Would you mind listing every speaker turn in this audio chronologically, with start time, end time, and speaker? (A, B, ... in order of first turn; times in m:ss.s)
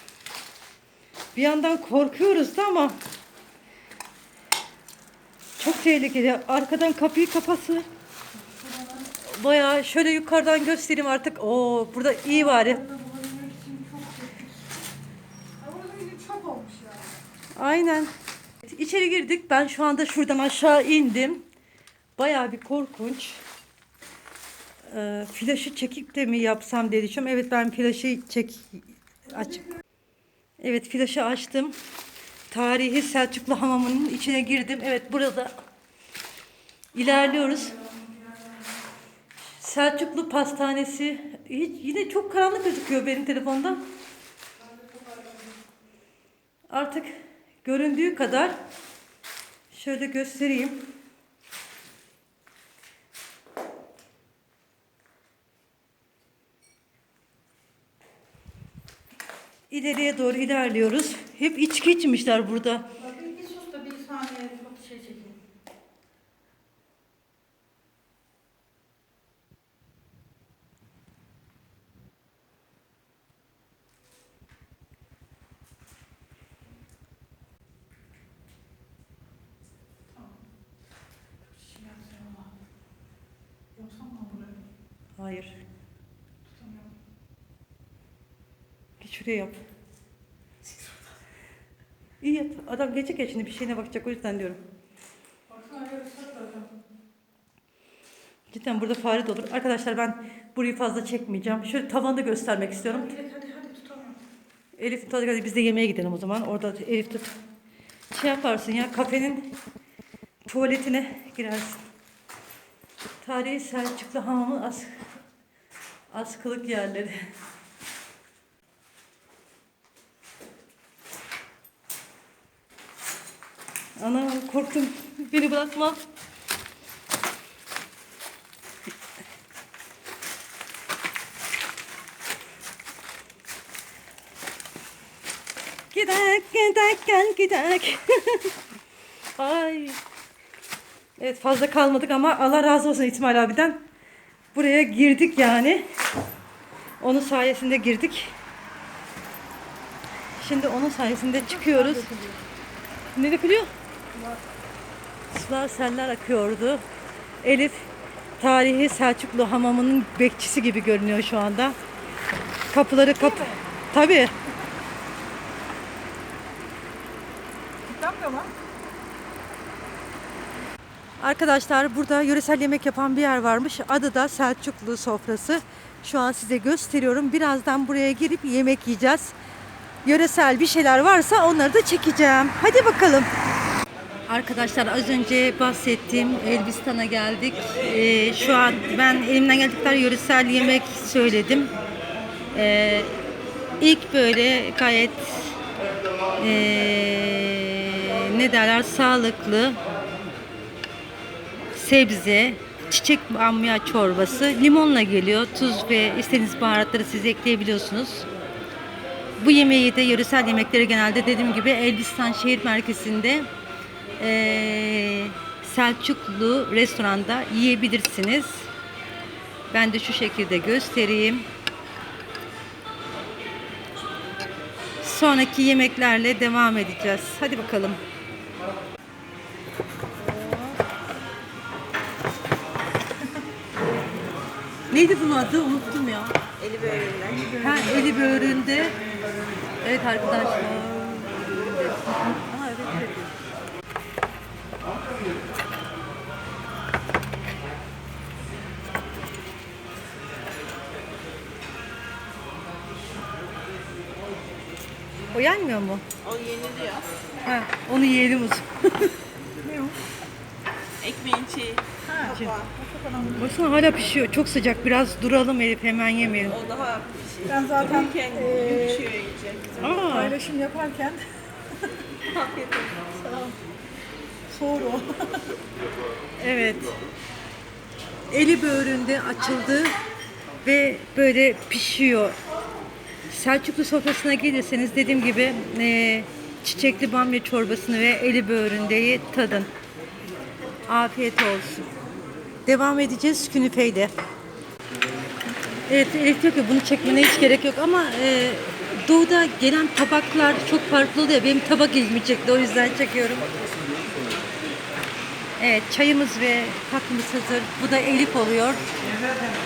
0:01.4-0:03.0 A
0:05.6-0:07.9 A
0:08.4-0:09.1 B
0:09.3-0:12.8 A
0:12.3-0:14.8 B
0:15.6-0:17.1 B
0:17.6-0:18.1 A
0:18.6-0:21.4 A
0:22.2-0:23.4 A
0:24.9-0:29.7 A
0:30.6-0:31.8 A
0:32.5-0:35.5 A
0:36.9-0:37.8 A
0:39.6-0:43.8 A
0:46.7-0:47.1 A
0:47.6-0:48.6 A
0:49.7-0:50.9 A
0:59.7-1:02.9 A
1:03.0-1:05.4 B
1:21.4-1:22.5 B
1:23.7-1:24.6 B
1:25.2-1:25.6 A
1:26.4-1:26.9 B
1:29.0-1:29.6 A
1:32.2-1:34.6 A
1:35.5-1:36.7 B
1:38.5-1:43.1 A
1:42.8-1:44.2 B
1:44.8-1:47.4 A
1:48.1-1:49.5 A
1:50.5-1:51.8 A
1:53.2-1:55.0 A
1:56.1-1:57.2 A
2:04.0-2:06.0 A
2:15.9-2:18.5 A
2:19.4-2:20.0 A
2:21.2-2:23.8 A
2:24.5-2:25.9 A
2:27.0-2:28.4 A
2:30.4-2:32.1 A
2:31.4-2:32.4 B
2:33.2-2:33.7 A
2:34.1-2:34.4 B
2:35.3-2:36.8 A
2:37.4-2:37.9 A
2:38.4-2:41.8 A
2:42.7-2:44.3 A
2:43.1-2:43.6 B
2:47.9-2:48.5 B
2:51.2-2:59.4 A
3:00.0-3:03.3 A
3:04.3-3:11.7 A
3:12.5-3:13.1 A
3:13.8-3:15.5 A
3:16.4-3:19.8 A
3:21.7-3:28.3 A
3:29.4-3:33.5 A
3:34.2-3:38.7 A
3:39.7-3:41.5 A
3:45.0-3:48.0 A
3:50.2-3:50.8 B
3:54.9-3:56.4 A
3:56.6-3:57.5 C
3:57.5-3:59.0 A
3:59.8-4:03.3 A
4:15.3-4:16.0 A
4:16.3-4:17.1 C
4:17.4-4:19.1 A
4:19.6-4:20.0 B
4:21.0-4:21.8 C
4:22.0-4:23.6 B
4:22.3-4:22.6 A
4:23.4-4:26.7 A
4:26.8-4:27.2 C
4:27.4-4:29.3 B
4:29.3-4:29.7 C
4:29.8-4:30.4 A
4:30.0-4:31.2 B
4:32.4-4:33.0 C
4:33.2-4:33.6 B
4:34.5-4:35.5 B
4:36.4-4:36.9 A
4:38.3-4:40.0 A
4:40.6-4:42.4 A
4:43.3-4:49.7 A
4:50.9-4:51.9 A
4:52.7-4:54.1 A
4:55.9-5:03.5 A
5:05.6-5:08.8 A